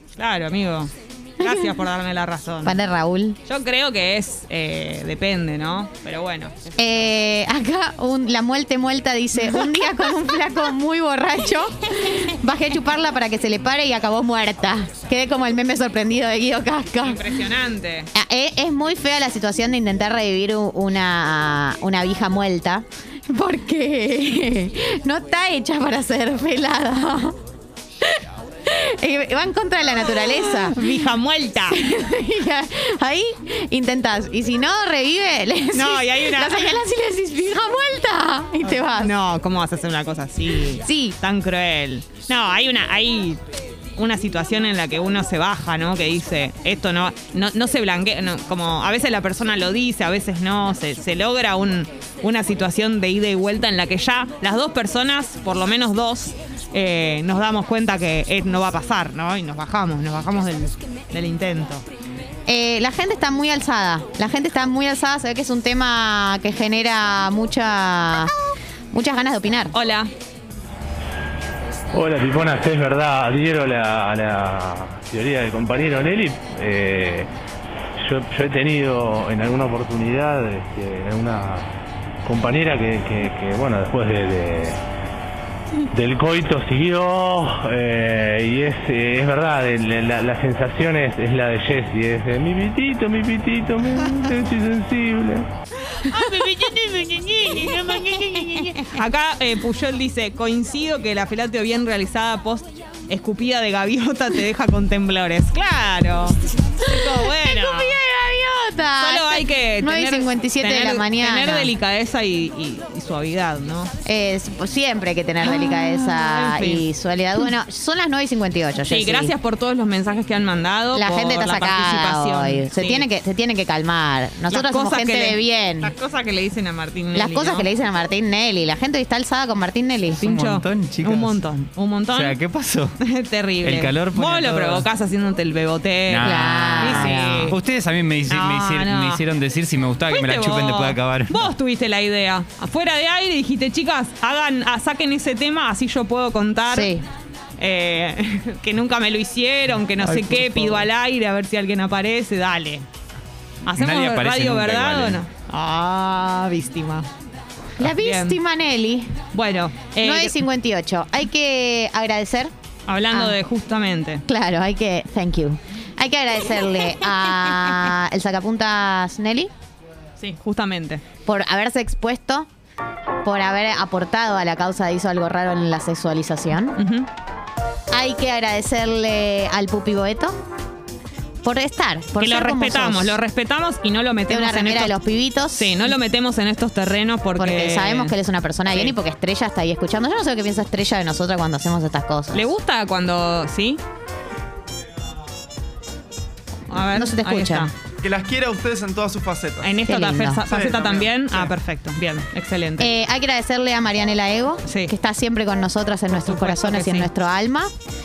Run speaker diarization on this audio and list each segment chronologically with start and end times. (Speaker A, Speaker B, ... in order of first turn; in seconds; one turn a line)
Speaker A: 0.2-2.8
Speaker B: 2.6-3.4
Speaker A: 3.5-6.7
Speaker B: 6.8-17.2
Speaker A: 17.0-18.1
Speaker B: 18.1-27.4
Speaker B: 28.1-30.8
Speaker A: 30.5-31.8
Speaker B: 31.7-39.1
Speaker A: 35.7-36.8
Speaker A: 38.6-43.4
Speaker B: 40.8-41.1
Speaker A: 44.0-61.8
Speaker B: 62.5-68.3
Speaker B: 68.9-69.7
Speaker A: 69.7-70.1
Speaker C: 72.0-77.2
Speaker C: 78.1-81.6
Speaker C: 82.3-84.7
Speaker C: 86.0-95.4
Speaker A: 95.9-108.0
Speaker B: 106.8-111.7
Speaker A: 109.0-113.9
Speaker B: 114.0-119.3
Speaker A: 115.4-116.8
Speaker A: 118.8-123.0
Speaker B: 120.9-125.9
Speaker A: 124.5-127.7
Speaker B: 127.1-130.2
Speaker A: 130.2-132.4
Speaker D: 130.2-131.4
Speaker D: 132.1-133.0
Speaker A: 133.0-137.6
Speaker D: 133.6-134.9
Speaker D: 136.1-141.5
Speaker B: 136.2-137.5
Speaker A: 138.3-139.2
Speaker A: 140.1-147.0
Speaker B: 146.7-147.0
Speaker A: 147.6-152.8
Speaker A: 153.6-157.1
Speaker D: 153.7-155.2
Speaker B: 157.8-159.1
Speaker A: 157.8-158.4
Speaker A: 159.3-160.4
Speaker B: 160.0-162.5
Speaker A: 162.9-164.2
Speaker B: 163.1-163.3
Speaker B: 164.3-169.5
Speaker A: 170.2-171.0
Speaker B: 171.2-172.5
Speaker B: 173.2-176.8
Speaker A: 176.8-177.1
Speaker B: 177.9-180.3
Speaker B: 181.4-183.1
Speaker A: 182.2-185.0
Speaker B: 184.3-185.9
Speaker A: 185.5-188.1
Speaker B: 187.4-192.4
Speaker A: 192.3-193.8
Speaker A: 196.7-197.7
Speaker B: 196.9-197.7
Speaker E: 198.0-199.7
Speaker A: 199.6-202.9
Speaker B: 199.8-200.4
Speaker E: 200.5-201.2
Speaker B: 202.8-207.7
Speaker A: 206.2-207.1